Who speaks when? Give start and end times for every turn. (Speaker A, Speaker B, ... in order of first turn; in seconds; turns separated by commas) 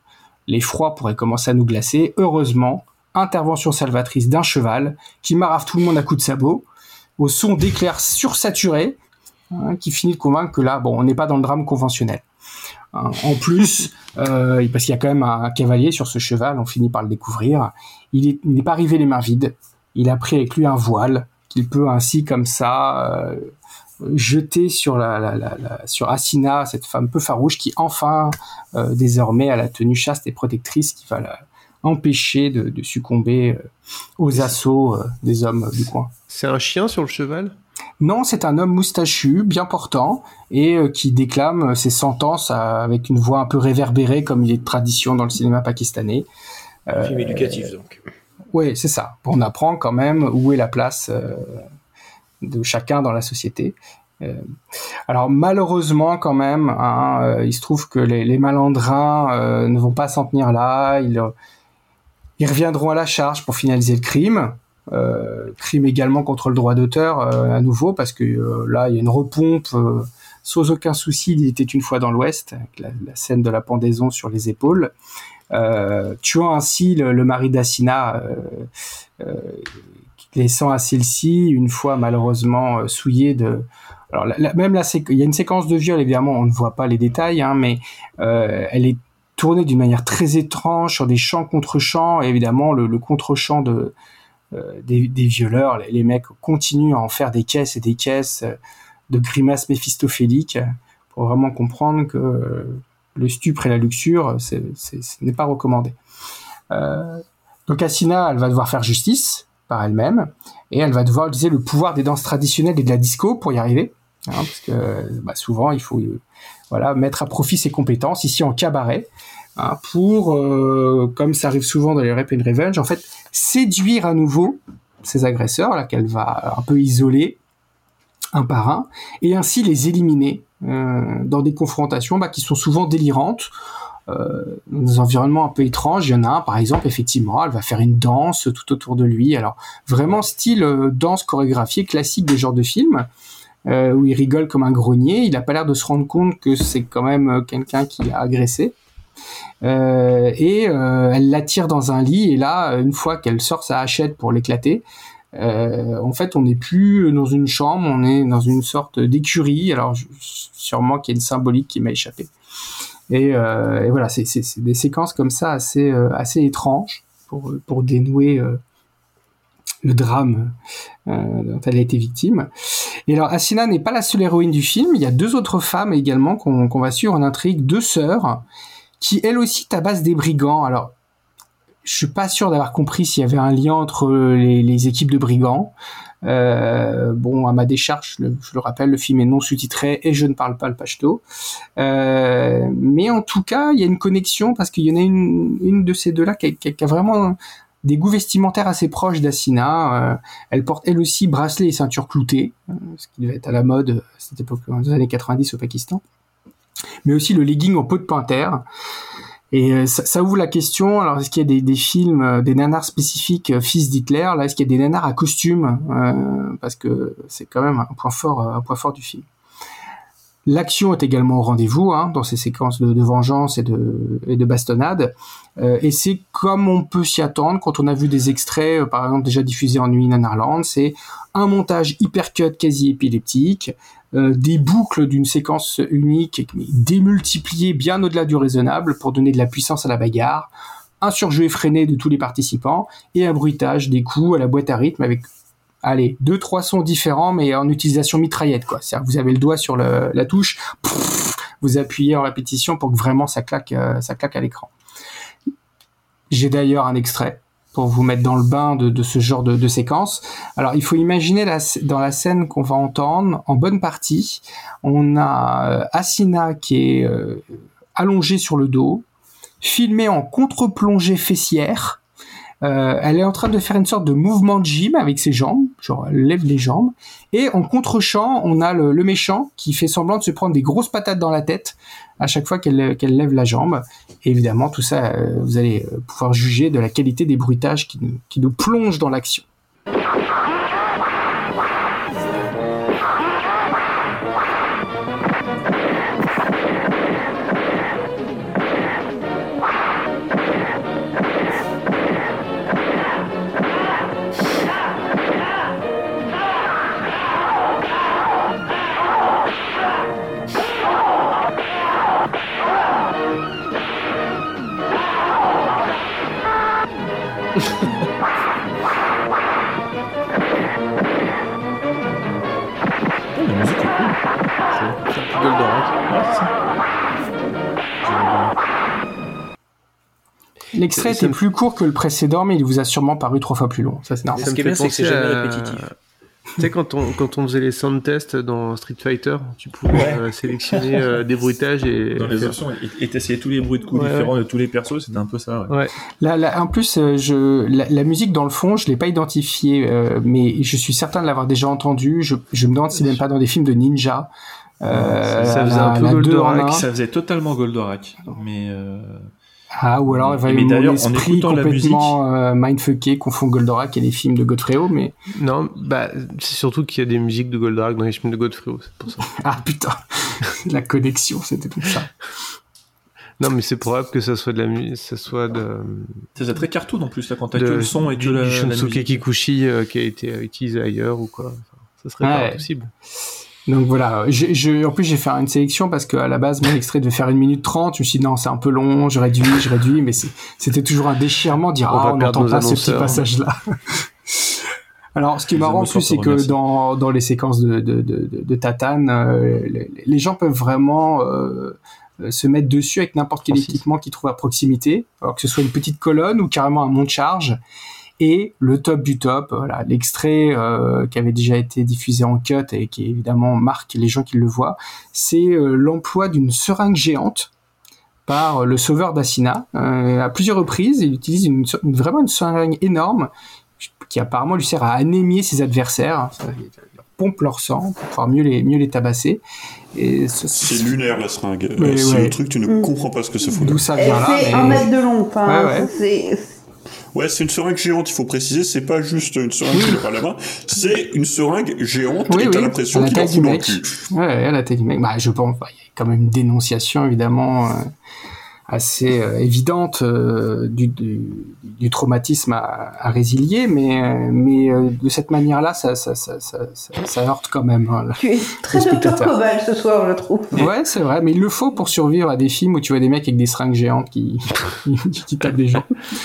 Speaker A: 0.5-6.7, Speaker A: 7.2-9.0, Speaker A: 9.5-12.2, Speaker A: 12.9-23.5, Speaker A: 24.0-33.6, Speaker A: 34.2-36.1, Speaker B: 36.3-37.5, Speaker A: 38.0-46.3, Speaker A: 46.9-47.7, Speaker C: 46.9-48.0, Speaker A: 48.5-51.7, Speaker A: 52.4-54.5, Speaker A: 55.1-61.3, Speaker A: 62.4-74.9, Speaker A: 75.5-79.8, Speaker A: 80.3-94.0, Speaker A: 94.5-98.6, Speaker A: 99.1-106.0, Speaker A: 106.7-127.4, Speaker A: 128.3-133.5, Speaker A: 134.1-143.1, Speaker A: 143.7-148.8, Speaker A: 149.6-162.3, Speaker A: 163.1-168.6, Speaker A: 169.8-170.6, Speaker A: 171.1-172.5, Speaker A: 173.1-178.4, Speaker A: 179.0-180.9, Speaker A: 181.8-191.2, Speaker A: 191.8-206.0, Speaker A: 207.0-208.6, Speaker A: 209.5-219.3, Speaker A: 220.5-245.3, Speaker A: 245.8-254.7, Speaker A: 256.3-269.1, Speaker A: 269.6-272.0, Speaker A: 272.6-289.4, Speaker D: 323.4-324.2, Speaker B: 325.1-326.0, Speaker D: 326.1-326.5, Speaker D: 328.0-328.5, Speaker A: 330.7-334.4, Speaker B: 330.9-331.4, Speaker C: 334.4-335.9, Speaker B: 334.4-335.9, Speaker B: 336.6-342.6, Speaker D: 339.9-340.2, Speaker D: 342.2-345.8, Speaker B: 343.9-344.3, Speaker B: 345.7-345.9, Speaker A: 346.2-356.8, Speaker D: 354.9-356.0, Speaker B: 355.4-356.8, Speaker D: 356.7-359.3, Speaker A: 359.8-365.1, Speaker D: 360.1-362.2, Speaker B: 365.3-369.3, Speaker A: 369.2-372.1, Speaker B: 373.4-376.3, Speaker D: 376.4-379.2, Speaker B: 377.5-382.9, Speaker A: 382.2-382.6, Speaker A: 383.7-407.6, Speaker B: 391.9-393.2, Speaker D: 395.5-396.6, Speaker A: 408.2-417.5, Speaker A: 418.3-429.4, Speaker A: 429.9-431.0, Speaker E: 430.6-433.8, Speaker A: 431.8-432.4, Speaker A: 433.5-434.9, Speaker F: 434.0-436.5, Speaker A: 435.5-435.9, Speaker E: 437.1-444.0, Speaker A: 442.3-447.9, Speaker A: 448.7-459.3, Speaker F: 458.2-460.5, Speaker A: 460.5-465.9